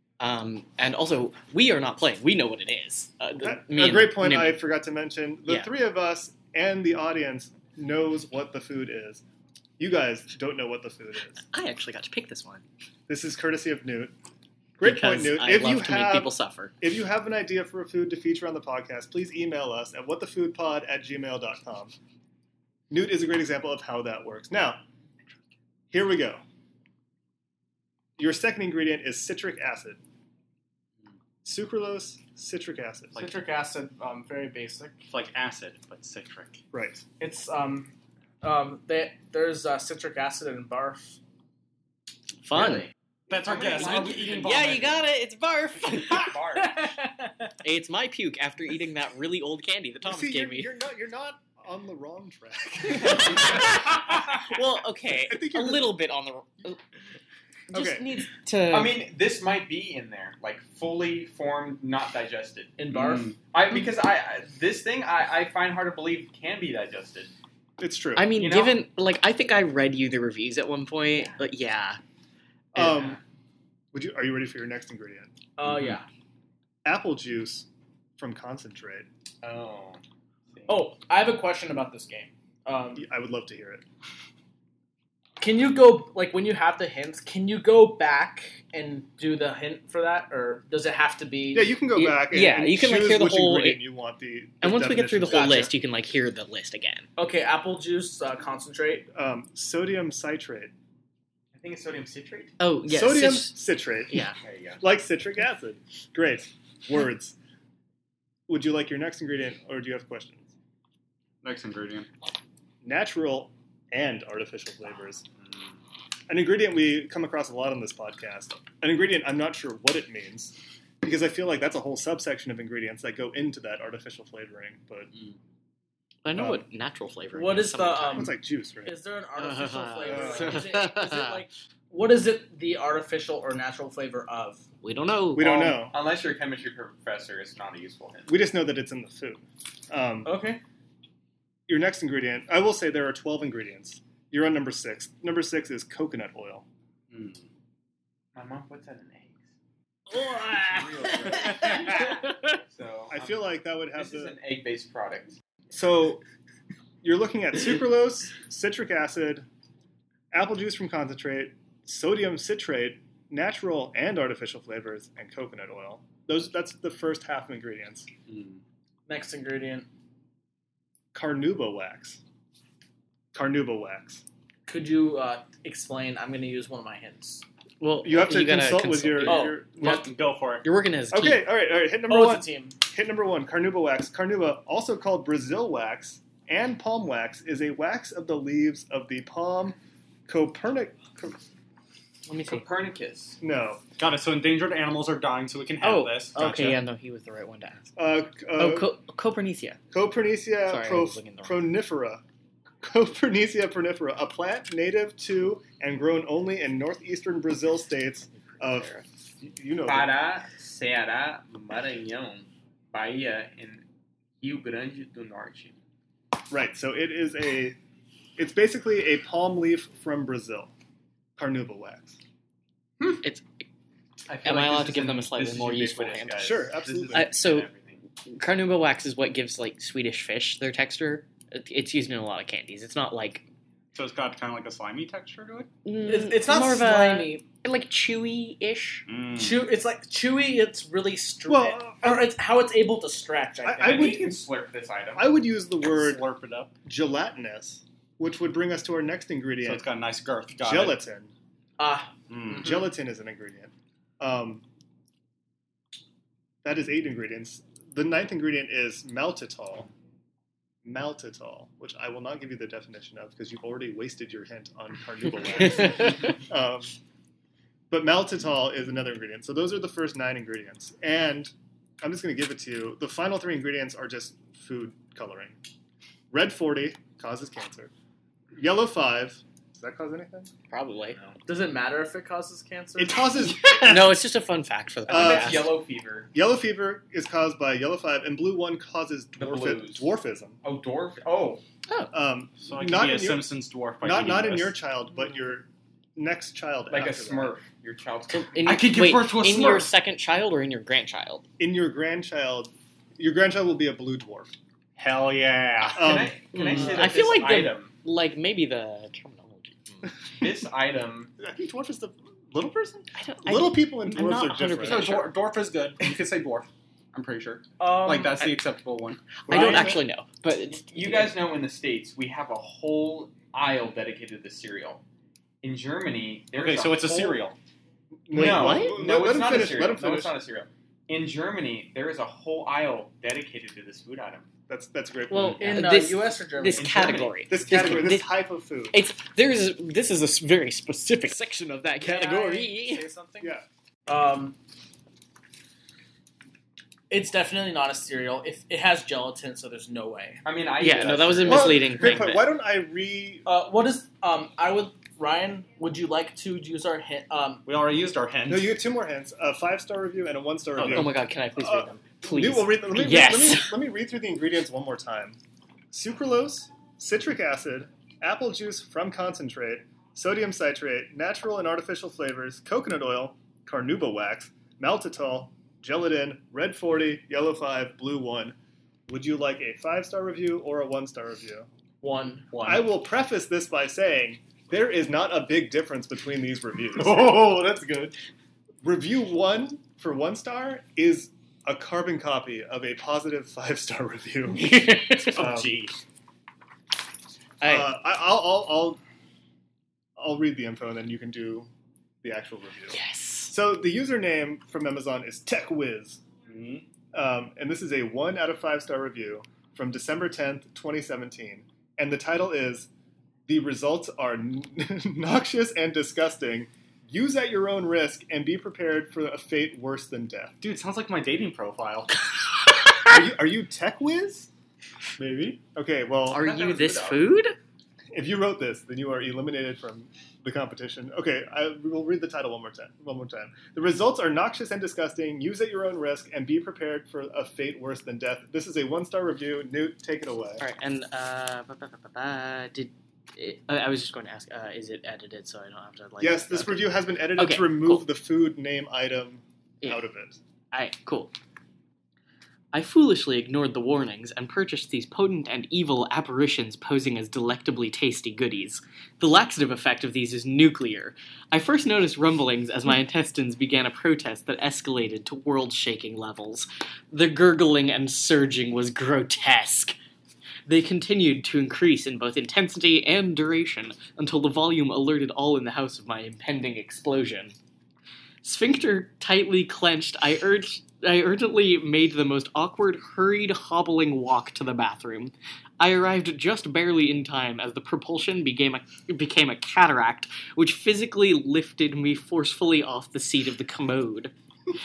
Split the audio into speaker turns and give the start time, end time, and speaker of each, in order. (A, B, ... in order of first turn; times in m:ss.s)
0:00.2-0:04.6 A
0:03.4-0:09.2 B
0:09.8-0:11.4 B
0:11.4-0:12.6 A
0:13.1-0:14.1 B
0:14.8-0:21.9 B
0:14.8-0:16.7 A
0:22.9-0:24.8 B
0:25.9-0:26.4 B
0:28.2-0:30.0 B
0:31.4-0:33.2 B
0:33.2-0:35.0 C
0:35.1-0:36.6 D
0:36.7-0:37.0 B
0:37.2-0:41.2 C
0:42.4-0:42.9 A
0:42.5-0:44.7 E
0:43.3-0:45.0 D
0:44.4-0:46.4 A
0:46.0-0:46.9 E
0:46.6-0:47.5 C
0:47.6-0:50.7 A
0:50.0-0:53.7 B
0:52.9-0:56.8 A
0:55.1-0:56.0 B
0:57.7-0:59.0 A
0:57.7-0:58.1 B
0:58.7-1:02.8 E
1:02.8-1:03.4 C
1:02.9-1:03.4 D
1:03.5-1:07.3 E
1:07.8-1:08.3 B
1:08.2-1:12.0 A
1:08.4-1:08.8 E
1:12.7-1:13.2 B
1:12.8-1:13.2 E
1:13.9-1:15.3 B
1:15.6-1:16.1 C
1:16.8-1:19.1 B
1:19.4-1:20.0 E
1:20.5-1:20.9 E
1:20.7-1:23.0 C
1:23.0-1:23.8 B
1:25.4-1:31.8 C
1:31.5-1:35.7 B
1:32.0-1:33.8 A
1:34.6-1:37.1 A
1:37.2-1:39.1 C
1:39.1-1:40.7 B
1:41.5-1:42.6 E
1:42.6-1:44.4 A
1:42.9-1:44.2 B
1:44.4-1:44.8 E
1:44.8-1:47.4 B
1:48.5-1:50.5 B
1:51.4-1:52.1 D
1:52.8-1:55.2 B
1:56.3-2:05.1 B
2:06.2-2:08.3 A
2:06.4-2:06.6 B
2:07.4-2:14.6 C
2:08.1-2:09.0 B
2:09.4-2:11.4 A
2:10.0-2:10.6 B
2:14.8-2:15.8 A
2:15.4-2:16.0 B
2:15.7-2:18.3 E
2:18.3-2:20.4 B
2:20.2-2:20.6 C
2:21.7-2:26.7 B
2:27.1-2:27.4 D
2:28.3-2:29.4 E
2:30.1-2:32.6 A
2:30.5-2:35.4 E
2:33.1-2:34.4 B
2:35.7-2:36.2 B
2:37.0-2:39.5 B
2:40.3-2:48.1 B
2:48.3-2:48.6 D
2:49.1-2:49.9 C
2:51.1-2:52.2 B
2:53.3-2:54.2 B
2:54.7-2:57.4 C
2:57.8-3:00.0 A
2:58.0-3:00.0 B
2:59.2-2:59.9 C
2:59.8-3:00.7 D
3:00.6-3:01.5 A
3:01.1-3:11.4 B
3:02.1-3:02.8 C
3:12.3-3:12.6 A
3:12.5-3:13.4 E
3:13.4-3:13.8 B
3:14.0-3:16.8 D
3:15.8-3:17.9 A
3:18.0-3:18.9 B
3:18.6-3:19.8 A
3:19.9-3:22.2 B
3:20.7-3:21.6 A
3:22.8-3:30.1 B
3:28.6-3:29.0 A
3:29.8-3:33.8 E
3:34.4-3:35.8 E
3:36.5-3:37.8 B
3:38.4-3:40.7 B
3:41.4-3:42.2 B
3:43.2-3:43.6 A
3:44.3-3:48.0 E
3:44.4-3:46.5 A
3:46.4-3:47.3 B
3:47.1-3:47.7 A
3:48.3-3:53.5 A
3:53.9-3:55.7 D
3:55.8-3:59.0 A
3:56.1-3:57.4 C
3:59.1-3:59.7 D
3:59.4-4:04.3 C
4:01.5-4:02.3 B
4:03.6-4:04.4 B
4:03.8-4:05.3 E
4:05.2-4:06.2 B
4:05.8-4:06.8 D
4:06.8-4:09.9 B
4:09.6-4:11.0 D
4:10.6-4:11.3 B
4:11.8-4:12.7 C
4:12.3-4:12.7 D
4:12.5-4:14.6 B
4:16.6-4:19.9 B
4:20.8-4:26.9 B
4:25.8-4:26.1 A
4:27.9-4:35.6 B
4:36.3-4:37.9 B
4:38.6-4:40.5 B
4:40.7-4:41.2 A
4:41.5-4:43.3 C
4:43.0-4:44.2 B
4:43.8-4:45.8 A
4:45.1-4:45.8 B
4:45.1-4:46.3 E
4:46.3-4:50.6 B
4:49.4-4:50.1 E
4:50.6-4:51.6 E
4:52.1-4:57.6 B
4:52.6-4:54.8 D
4:56.9-4:58.6 E
4:58.3-5:01.4 A
4:58.6-4:59.9 D
5:01.6-5:04.5 B
5:05.0-5:06.1 D
5:06.0-5:06.4 B
5:06.0-5:07.9 E
5:06.5-5:10.1 A
5:10.4-5:11.3 E
5:11.4-5:15.2 B
5:13.2-5:15.3 A
5:14.8-5:19.4 D
5:17.8-5:18.5 C
5:19.5-5:20.0 B
5:19.5-5:21.3 A
5:20.9-5:25.0 E
5:25.6-5:27.5 E
5:26.6-5:27.6 D
5:28.3-5:30.4 B
5:28.3-5:34.5 E
5:28.3-5:29.0 A
5:34.7-5:35.9 B
5:35.3-5:38.4 A
5:35.6-5:37.2 C
5:36.8-5:38.0 E
5:37.5-5:39.0 B
5:38.9-5:43.1 A
5:42.0-5:44.6 C
5:43.4-5:43.6 B
5:47.1-5:50.4 C
5:50.4-5:51.9 E
5:50.8-5:52.4 A
5:51.4-5:53.5 B
5:53.5-5:57.7 C
5:57.6-5:58.8 D
5:58.5-6:05.4 B
6:00.8-6:03.8 A
6:05.9-6:18.6 B
6:19.1-6:21.7 B
6:22.0-6:22.5 C
6:22.5-6:22.9 D
6:22.6-6:27.5 B
6:27.0-6:28.2 D
6:28.8-6:34.7 B
6:34.5-6:35.4 A
6:35.2-6:36.0 D
6:35.4-6:35.8 B
6:37.6-6:37.9 A
6:37.6-6:39.0 B
6:40.2-6:41.7 B
6:42.2-6:46.2 B
6:42.9-6:43.5 A
6:46.5-6:46.8 D
6:47.1-6:52.9 B
6:53.5-7:00.6 B
7:00.6-7:02.1 D
7:03.1-7:04.5 B
7:05.2-7:05.6 D
7:05.2-7:06.4 B
7:06.3-7:07.6 A
7:06.4-7:07.3 E
7:08.1-7:20.6 B
7:20.6-7:28.1 A
7:26.2-7:30.4 B
7:30.7-7:31.3 A
7:32.7-7:50.0 A
7:50.7-7:57.6 A
7:58.4-8:14.3 A